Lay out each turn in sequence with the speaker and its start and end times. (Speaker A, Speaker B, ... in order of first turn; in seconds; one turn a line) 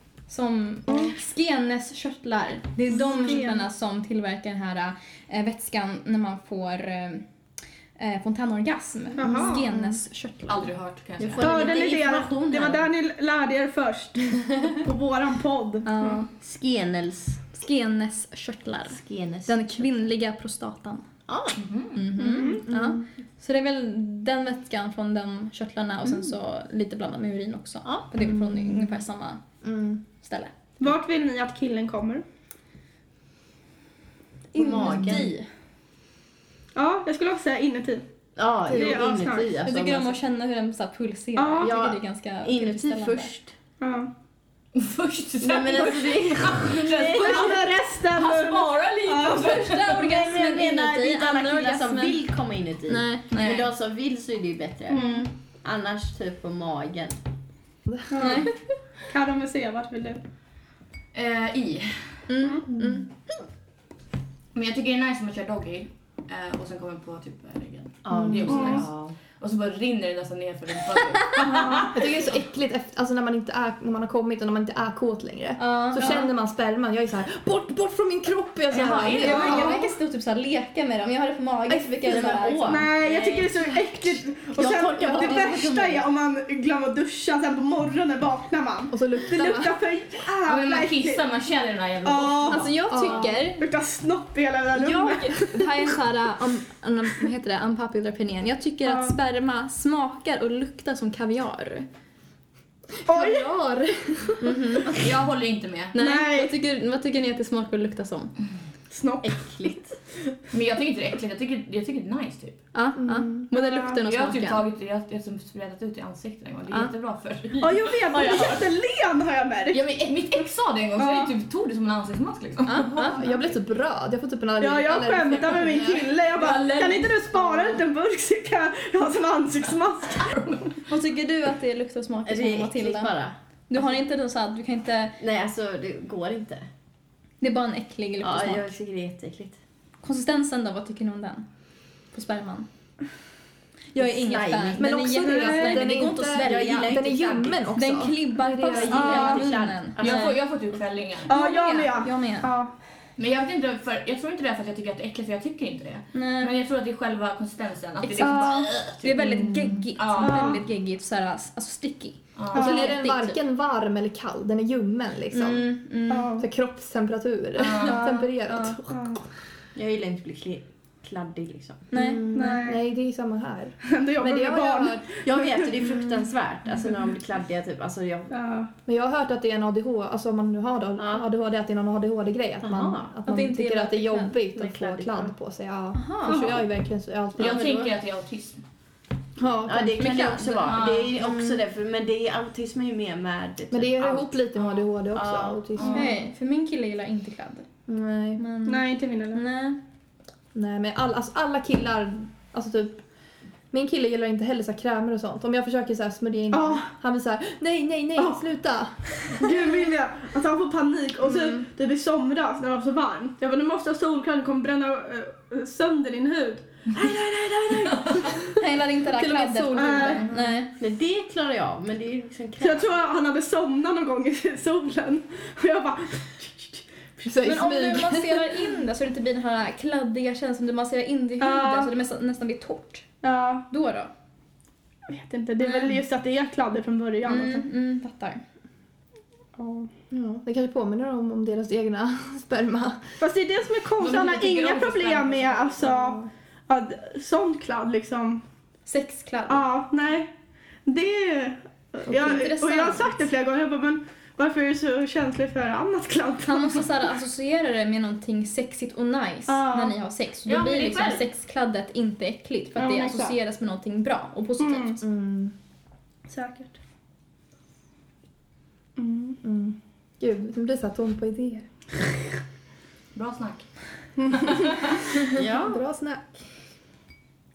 Speaker A: 0.3-7.2
Speaker B: 0.9-1.1
Speaker B: 3.0-3.6
Speaker A: 8.0-10.7
Speaker B: 9.2-9.6
Speaker C: 9.2-10.0
Speaker D: 10.5-11.6
Speaker E: 11.2-12.9
Speaker B: 11.4-16.2
Speaker A: 15.8-16.3
Speaker E: 16.4-17.4
Speaker A: 17.5-21.0
Speaker E: 18.9-19.6
Speaker E: 21.3-21.6
Speaker D: 21.5-22.0
Speaker A: 21.9-29.4
Speaker B: 22.2-22.7
Speaker C: 22.4-23.1
Speaker C: 28.2-29.0
Speaker C: 29.6-30.0
Speaker A: 30.2-30.5
Speaker B: 30.8-32.2
Speaker A: 34.5-35.4
Speaker E: 34.5-35.3
Speaker B: 36.7-38.0
Speaker E: 38.4-40.1
Speaker B: 38.7-39.6
Speaker A: 39.6-43.3
Speaker B: 41.4-41.7
Speaker E: 41.6-43.5
Speaker B: 43.8-44.1
Speaker D: 44.7-50.1
Speaker E: 45.4-47.6
Speaker B: 47.1-49.6
Speaker A: 49.5-52.2
Speaker E: 50.0-57.2
Speaker A: 52.9-53.2
Speaker D: 53.3-53.7
Speaker A: 54.9-55.3
Speaker B: 54.9-55.2
Speaker B: 58.1-58.5
Speaker A: 58.2-58.5
Speaker B: 59.1-60.2
Speaker D: 61.1-62.2
Speaker A: 62.3-63.0
Speaker C: 62.7-63.0
Speaker D: 64.5-72.0
Speaker E: 68.0-69.1
Speaker C: 68.1-68.5
Speaker B: 68.5-68.8
Speaker B: 71.4-71.9
Speaker C: 71.8-79.8
Speaker A: 75.6-76.3
Speaker D: 78.7-79.7
Speaker E: 78.7-79.3
Speaker A: 79.2-82.8
Speaker B: 79.2-79.8
Speaker E: 82.0-83.9
Speaker B: 82.7-91.2
Speaker E: 84.5-86.0
Speaker C: 88.9-89.7
Speaker D: 90.5-92.7
Speaker B: 92.0-95.8
Speaker A: 92.5-93.6
Speaker C: 92.9-93.3
Speaker A: 94.7-101.9
Speaker B: 98.8-99.2
Speaker C: 103.0-104.5
Speaker B: 103.0-103.5
Speaker A: 104.4-105.0
Speaker D: 104.8-105.9
Speaker A: 105.9-108.3
Speaker B: 106.0-106.5
Speaker B: 108.9-109.4
Speaker E: 109.2-110.0
Speaker D: 110.5-112.6
Speaker A: 112.7-114.6
Speaker C: 113.0-113.5
Speaker B: 113.5-114.0
Speaker D: 114.1-118.6
Speaker B: 117.6-119.8
Speaker D: 119.7-122.9
Speaker B: 121.0-121.3
Speaker A: 122.7-123.2
Speaker C: 122.8-126.0
Speaker B: 124.6-130.3
Speaker D: 125.5-127.2
Speaker D: 130.2-130.8
Speaker A: 130.9-133.1
Speaker E: 132.2-133.9
Speaker A: 133.7-135.2
Speaker E: 135.2-136.7
Speaker A: 137.4-138.7
Speaker E: 138.2-139.6
Speaker A: 140.0-141.5
Speaker A: 142.1-142.7
Speaker A: 143.9-146.9
Speaker E: 144.0-144.9
Speaker C: 144.8-149.4
Speaker B: 145.2-145.8
Speaker E: 145.9-147.6
Speaker A: 147.7-150.4
Speaker E: 148.7-150.3
Speaker B: 148.9-149.4
Speaker D: 150.0-151.3
Speaker B: 151.3-152.7
Speaker A: 151.3-152.5
Speaker D: 153.2-159.4
Speaker A: 156.1-156.5
Speaker A: 158.1-163.4
Speaker B: 158.2-158.7
Speaker C: 159.2-159.8
Speaker D: 160.0-160.5
Speaker B: 160.2-160.6
Speaker D: 162.3-162.8
Speaker B: 162.5-162.9
Speaker C: 162.5-165.7
Speaker A: 165.3-166.3
Speaker B: 166.1-166.4
Speaker C: 166.4-169.2
Speaker D: 167.6-168.0
Speaker A: 167.8-168.8
Speaker B: 168.9-169.2
Speaker E: 169.7-171.9
Speaker A: 171.9-172.6
Speaker C: 171.9-175.2
Speaker B: 172.3-172.8
Speaker B: 173.8-175.7
Speaker E: 175.2-178.3
Speaker B: 178.3-178.7
Speaker C: 178.8-187.7
Speaker E: 181.0-181.2
Speaker E: 182.6-183.1
Speaker A: 183.2-184.3
Speaker E: 184.5-185.3
Speaker A: 185.9-186.5
Speaker B: 186.3-186.6
Speaker D: 187.4-188.6
Speaker E: 187.4-187.9
Speaker C: 189.4-191.6
Speaker E: 189.7-195.6
Speaker D: 190.6-191.1
Speaker C: 193.7-196.1
Speaker D: 195.7-196.0
Speaker B: 195.8-196.1
Speaker A: 195.9-197.7
Speaker C: 197.9-198.4
Speaker A: 198.4-199.8
Speaker B: 198.6-199.4
Speaker C: 200.5-203.0
Speaker C: 203.7-209.1
Speaker B: 206.5-206.9
Speaker B: 209.2-216.7
Speaker E: 216.9-218.5
Speaker D: 217.8-218.3
Speaker A: 218.5-220.7
Speaker C: 219.1-220.6
Speaker B: 219.7-220.2
Speaker E: 220.8-222.9
Speaker B: 222.6-226.8
Speaker C: 227.2-228.5
Speaker A: 227.4-233.1
Speaker B: 231.4-231.9
Speaker B: 233.2-233.7
Speaker A: 233.7-234.1
Speaker B: 235.1-237.7
Speaker A: 235.6-235.9
Speaker A: 237.2-238.4
Speaker B: 239.6-239.9
Speaker C: 240.1-243.2
Speaker B: 243.2-248.4
Speaker D: 244.0-246.0
Speaker A: 248.8-249.6
Speaker B: 249.5-250.3
Speaker B: 250.8-257.0
Speaker A: 252.1-253.2
Speaker A: 256.4-265.0
Speaker B: 259.5-259.9
Speaker E: 260.5-261.2
Speaker B: 262.8-263.4
Speaker B: 264.6-265.0
Speaker C: 265.0-265.5
Speaker B: 266.3-266.8
Speaker B: 268.9-269.4
Speaker C: 269.4-271.7
Speaker D: 273.1-273.7
Speaker B: 274.2-274.8
Speaker D: 274.3-275.1
Speaker C: 275.1-276.4
Speaker E: 275.3-275.8